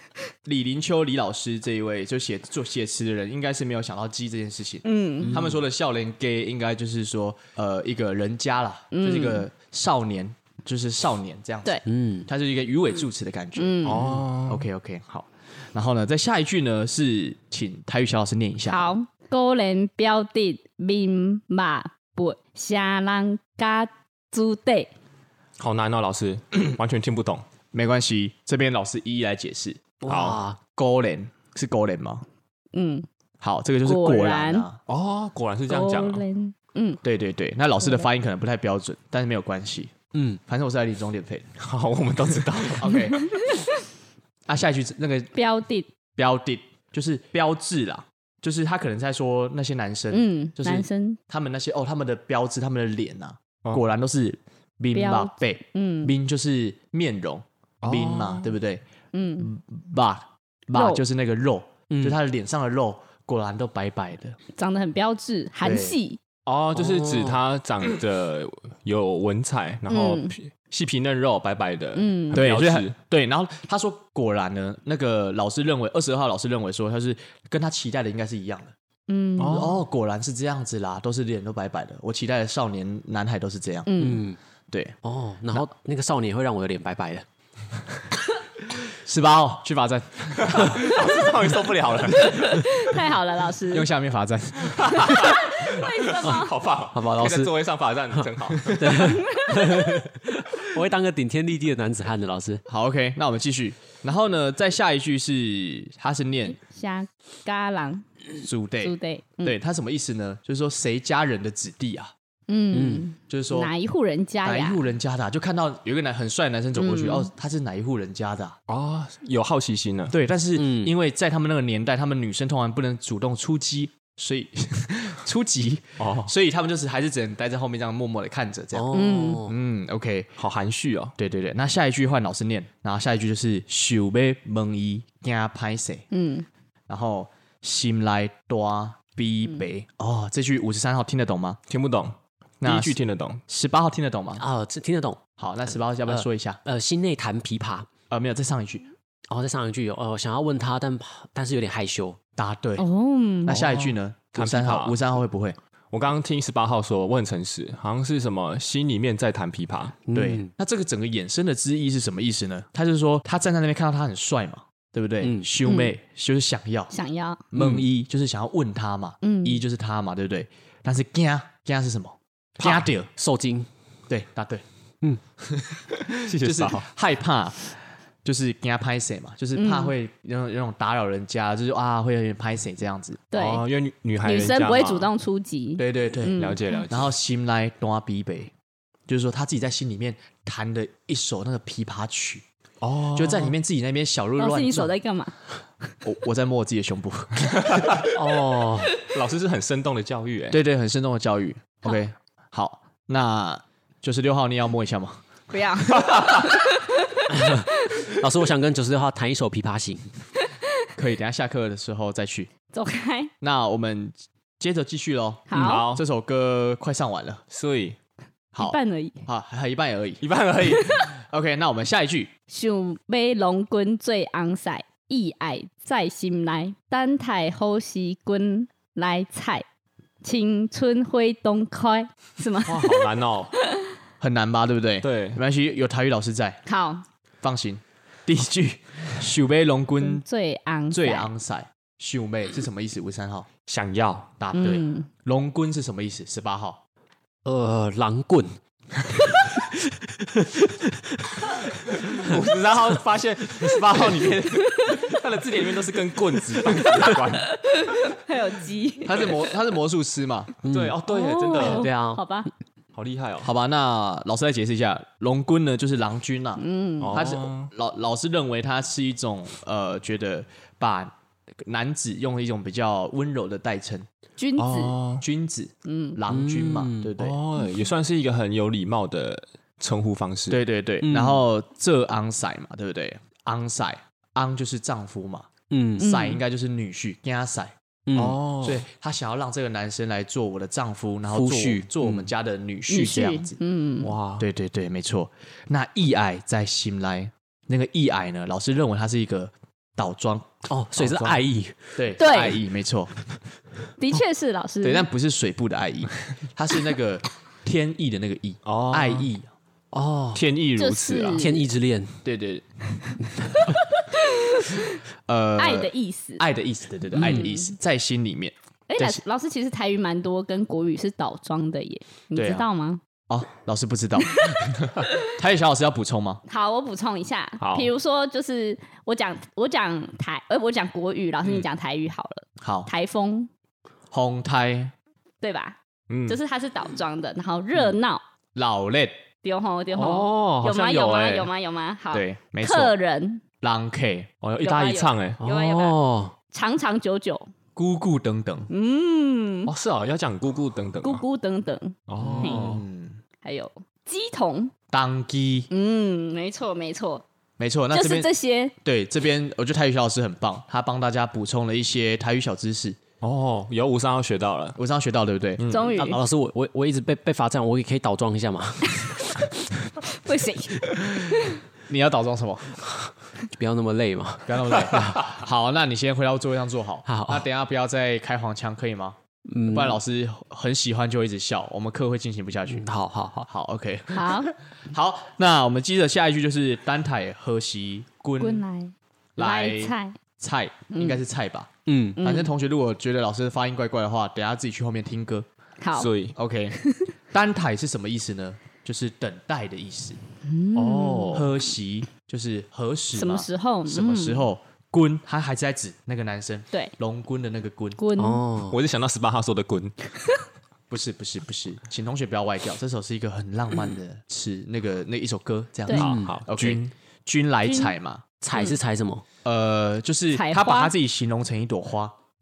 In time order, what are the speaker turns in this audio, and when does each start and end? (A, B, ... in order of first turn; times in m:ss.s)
0:00.4-0:18.9 A
0:04.8-0:05.4 B
0:05.2-0:05.6 C
0:08.9-0:09.5 B
0:11.9-0:12.3 C
0:13.6-0:14.1 B
0:13.8-0:14.6 D
0:18.7-0:24.9 B
0:25.6-0:27.5 D
0:27.7-0:29.8 A
0:30.0-0:30.6 C
0:30.1-0:30.4 D
0:30.7-0:32.2 A
0:32.7-0:33.1 B
0:33.4-0:34.8 A
0:33.8-0:34.7 B
0:34.9-0:36.2 D
0:35.7-0:37.0 B
0:37.0-0:39.9 A
0:40.1-0:40.4 C
0:40.5-0:41.5 A
0:41.6-0:43.2 D
0:42.6-0:43.4 A
0:44.5-0:45.3 A
0:45.4-0:45.9 B
0:46.2-0:58.8 A
0:50.1-0:51.2 B
0:54.9-0:56.1 B
0:57.8-0:58.5 D
0:59.1-0:59.5 B
0:59.4-1:04.4 A
1:00.7-1:01.0 B
1:01.9-1:02.2 C
1:04.6-1:06.2 B
1:05.6-1:06.0 A
1:06.5-1:12.9 D
1:06.8-1:07.4 C
1:09.9-1:10.4 B
1:12.0-1:12.4 B
1:12.3-1:18.7 A
1:19.1-1:19.7 B
1:19.4-1:19.8 D
1:19.4-1:23.9 A
1:23.9-1:24.3 B
1:24.0-1:24.4 C
1:24.7-1:25.0 A
1:25.0-1:27.2 C
1:29.0-1:30.8 A
1:30.4-1:32.8 D
1:32.2-1:33.9 B
1:33.7-1:35.3 A
1:34.8-1:39.2 D
1:35.0-1:36.6 B
1:36.9-1:37.5 C
1:38.2-1:42.6 C
1:39.0-1:40.0 B
1:42.7-1:46.6 A
1:46.6-1:48.0 B
1:48.4-1:52.1 A
1:48.8-1:49.6 B
1:52.5-1:54.8 B
1:52.7-1:53.1 C
1:53.3-1:53.7 A
1:54.4-1:58.6 A
1:56.8-1:57.3 B
1:58.7-2:00.2 D
2:00.1-2:10.3 A
2:00.6-2:00.9 C
2:06.0-2:06.3 D
2:08.7-2:09.5 C
2:08.9-2:09.5 B
2:10.4-2:11.2 D
2:11.2-2:16.0 A
2:16.1-2:16.5 B
2:16.9-2:21.6 A
2:21.7-2:23.4 D
2:22.6-2:24.4 A
2:24.4-2:25.2 C
2:25.4-2:26.6 A
2:26.1-2:27.9 C
2:28.1-2:28.9 A
2:29.3-2:32.2 C
2:32.4-2:32.8 A
2:32.8-2:33.6 B
2:33.4-2:35.6 A
2:33.5-2:35.0 D
2:35.9-2:40.0 D
2:40.1-2:40.5 C
2:40.1-2:46.9 A
2:45.2-2:45.5 C
2:45.6-2:45.9 B
2:46.9-2:47.4 B
2:47.5-2:53.1 A
2:47.6-2:47.9 C
2:49.2-2:49.6 B
2:52.6-2:53.7 C
2:54.1-2:54.6 A
2:55.7-3:03.2 A
2:56.1-2:56.9 D
2:59.6-2:59.9 B
3:03.3-3:03.6 B
3:03.3-3:05.1 D
3:04.2-3:06.8 B
3:05.8-3:06.4 A
3:06.4-3:07.1 D
3:06.9-3:08.5 A
3:09.1-3:12.4 A
3:12.8-3:13.6 D
3:13.1-3:14.9 A
3:14.4-3:15.4 B
3:16.0-3:18.0 A
3:17.6-3:18.1 D
3:18.1-3:19.0 C
3:19.0-3:20.6 D
3:20.5-3:25.2 A
3:25.5-3:27.6 B
3:27.3-3:30.1 C
3:31.0-3:32.5 A
3:32.7-3:33.3 B
3:33.4-3:37.4 A
3:35.5-3:35.9 B
3:35.5-3:36.0 D
3:37.5-3:38.0 D
3:38.5-3:40.2 A
3:38.6-3:39.2 B
3:40.2-3:41.1 D
3:40.7-3:41.1 B
3:41.1-3:42.3 A
3:42.5-3:49.6 B
3:50.2-3:53.1 B
3:52.6-3:53.5 D
3:54.2-3:56.6 A
3:55.0-3:55.4 D
3:56.7-3:57.0 B
3:57.4-4:00.2 A
4:00.0-4:01.3 B
4:00.9-4:03.5 A
4:03.7-4:04.3 D
4:04.4-4:06.8 A
4:04.5-4:05.1 B
4:07.4-4:08.6 C
4:09.1-4:12.3 C
4:12.0-4:17.6 D
4:17.5-4:19.2 B
4:19.0-4:20.6 A
4:20.6-4:21.0 C
4:20.6-4:21.9 D
4:21.1-4:22.5 B
4:21.6-4:22.2 C
4:23.0-4:23.5 D
4:23.4-4:31.1 A
4:26.6-4:27.2 B
4:27.0-4:27.7 D
4:31.6-4:34.1 A
4:34.4-4:35.0 B
4:34.6-4:35.2 D
4:35.2-4:37.4 A
4:35.8-4:36.2 B
4:36.3-4:37.1 C
4:37.2-4:40.6 D
4:40.5-4:47.8 A
4:41.0-4:41.4 C
4:45.7-4:46.0 C
4:46.0-4:46.4 B
4:48.1-4:48.4 C
4:48.1-4:48.8 D
4:48.6-4:53.6 A
4:51.3-4:52.3 C
4:52.9-4:54.1 B
4:54.0-4:54.5 D
4:54.4-5:00.7 A
5:00.7-5:02.0 C
5:01.0-5:01.4 D
5:02.0-5:03.1 A
5:02.2-5:02.6 B
5:04.0-5:05.1 B
5:04.8-5:09.5 A
5:08.6-5:09.3 D
5:09.9-5:10.4 C
5:10.3-5:11.5 D
5:10.8-5:11.7 B
5:11.4-5:12.2 C
5:12.2-5:12.6 A
5:14.1-5:15.0 B
5:15.3-5:19.2 A
5:15.6-5:16.4 B
5:17.2-5:17.5 C
5:17.2-5:17.7 B
5:18.9-5:23.0 B
5:22.4-5:22.6 A
5:23.3-5:26.4 A
5:26.5-5:33.5 B
5:27.6-5:27.9 D
5:32.6-5:32.9 A
5:34.1-5:34.9 A
5:35.4-5:38.2 B
5:36.1-5:36.4 D
5:38.6-5:39.2 A
5:39.4-5:43.4 B
5:39.9-5:41.3 D
5:42.1-5:42.9 A
5:43.6-5:44.8 A
5:44.6-5:45.4 D
5:44.6-5:46.0 B
5:45.4-5:46.3 C
5:46.5-5:47.5 B
5:47.8-5:48.7 A
5:48.7-5:49.7 B
5:49.7-5:51.2 D
5:51.0-5:52.7 B
5:52.1-5:52.8 D
5:52.2-5:52.8 C
5:52.5-5:53.2 A
5:53.4-5:54.7 B
5:54.9-5:55.7 A
5:55.7-5:57.2 B
5:57.6-5:58.3 A
5:57.9-5:58.7 B
5:58.8-6:03.0 A
6:03.2-6:04.8 D
6:04.8-6:05.9 A
6:05.7-6:06.2 B
6:05.9-6:09.5 C
6:10.0-6:11.6 B
6:11.9-6:12.8 A
6:13.0-6:15.2 C
6:14.5-6:19.2 A
6:17.1-6:17.5 C
6:19.5-6:20.0 C
6:19.7-6:22.9 A
6:22.7-6:23.5 C
6:23.5-6:28.6 A
6:24.1-6:24.5 B
6:28.4-6:30.2 B
6:29.4-6:35.5 A
6:30.9-6:31.2 B
6:31.9-6:32.2 C
6:32.2-6:32.5 B
6:35.8-6:36.1 B
6:36.0-6:36.4 D
6:36.4-6:36.8 A
6:36.8-6:37.0 B
6:37.3-6:40.2 A
6:40.5-6:41.5 B
6:40.7-6:41.5 D
6:41.3-6:48.0 A
6:43.2-6:44.5 B
6:48.0-6:48.4 B
6:48.2-6:48.8 C
6:48.7-6:50.0 D
6:50.9-6:58.2 A
6:55.9-6:56.8 D
6:55.9-6:56.4 C
6:57.6-6:57.9 B
6:58.4-6:59.2 C
6:59.4-7:02.1 A
7:00.3-7:00.9 B